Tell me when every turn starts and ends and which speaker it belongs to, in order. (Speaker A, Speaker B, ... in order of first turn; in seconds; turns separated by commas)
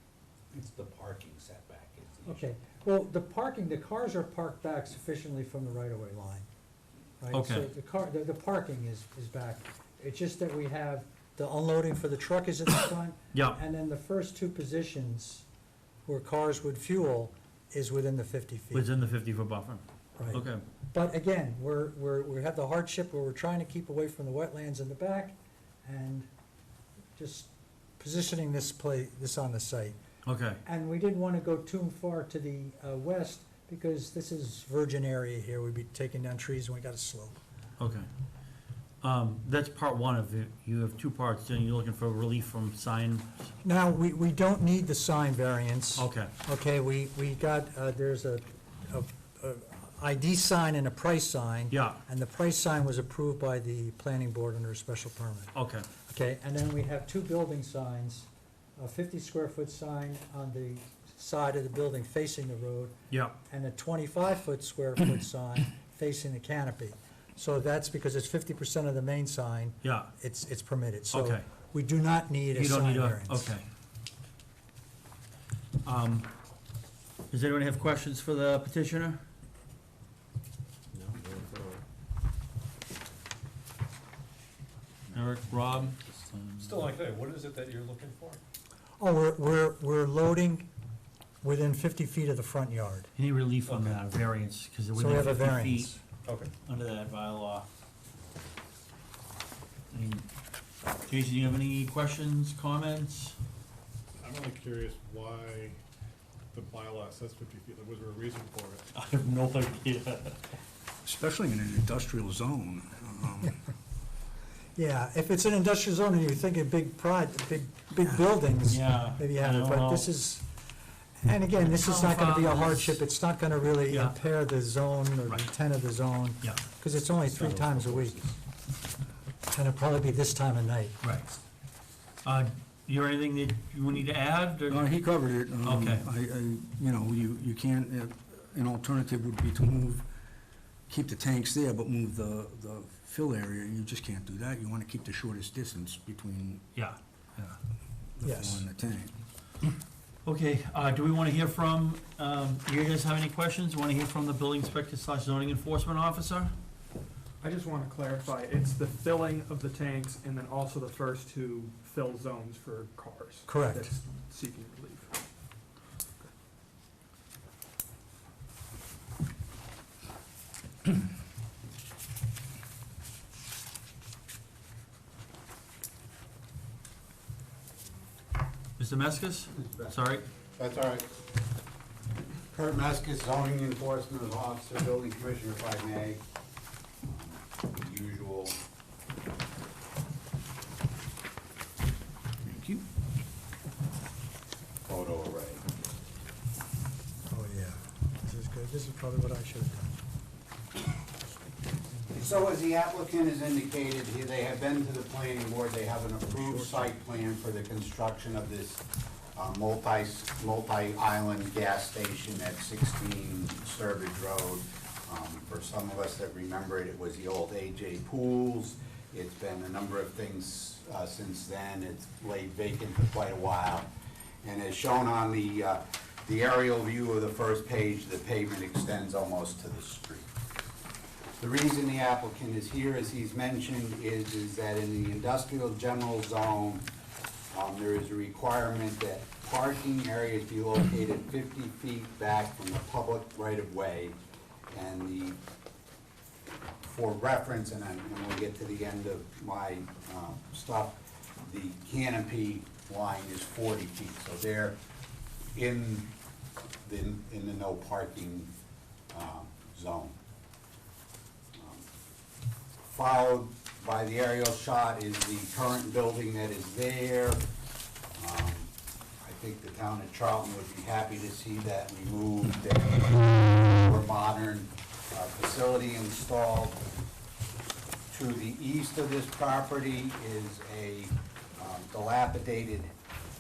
Speaker A: 0.5-2.5, Speaker B: 2.3-6.5, Speaker B: 7.2-15.5, Speaker C: 7.3-7.7, Speaker C: 13.3-13.6, Speaker B: 16.1-18.9, Speaker C: 18.7-20.6, Speaker B: 20.2-26.3, Speaker B: 27.2-30.0, Speaker C: 30.3-30.6, Speaker B: 30.6-37.4, Speaker C: 37.8-38.1, Speaker C: 39.0-43.5, Speaker B: 43.6-55.5, Speaker C: 46.0-46.3, Speaker C: 51.7-52.0, Speaker C: 55.5-55.9, Speaker B: 56.0-62.9, Speaker C: 63.1-63.4, Speaker B: 63.5-73.5, Speaker C: 69.8-70.1, Speaker C: 71.1-71.4, Speaker C: 72.5-73.7, Speaker C: 75.8-76.3, Speaker C: 77.3-79.2, Speaker D: 80.9-81.8, Speaker C: 85.1-86.8, Speaker D: 86.6-88.4, Speaker B: 89.0-90.7, Speaker B: 91.4-93.1, Speaker C: 93.2-95.9, Speaker D: 93.7-94.0, Speaker B: 95.0-96.0, Speaker D: 96.3-96.5, Speaker C: 96.6-97.7, Speaker C: 99.9-100.2, Speaker C: 101.1-103.4, Speaker E: 104.2-105.8, Speaker E: 106.5-108.9, Speaker C: 109.0-110.4, Speaker F: 111.0-113.6, Speaker B: 114.8-120.4, Speaker C: 118.7-120.1, Speaker B: 121.2-128.3, Speaker C: 121.6-123.0, Speaker C: 123.9-124.2, Speaker F: 127.7-128.1, Speaker B: 129.5-131.0, Speaker C: 131.0-131.3, Speaker C: 132.2-134.9, Speaker F: 134.7-140.0, Speaker C: 135.6-136.1, Speaker F: 140.9-146.6, Speaker F: 148.2-149.1, Speaker B: 148.2-148.6, Speaker C: 150.2-156.5, Speaker G: 157.4-165.2, Speaker B: 163.5-163.9, Speaker C: 178.8-180.2, Speaker A: 179.6-180.0, Speaker A: 180.6-181.1, Speaker A: 182.5-186.2, Speaker A: 187.0-188.6, Speaker F: 192.4-192.8, Speaker A: 194.9-195.6, Speaker B: 197.3-199.9, Speaker A: 202.1-208.8, Speaker A: 209.3-223.9, Speaker A: 224.4-230.3, Speaker A: 231.4-236.9, Speaker A: 237.5-244.2, Speaker A: 244.7-245.4, Speaker A: 246.8-254.8, Speaker A: 255.6-256.1, Speaker A: 256.8-258.5, Speaker A: 259.1-260.2, Speaker A: 261.6-261.9, Speaker A: 262.9-267.4, Speaker A: 268.1-268.7, Speaker A: 269.2-276.8, Speaker A: 278.1-282.9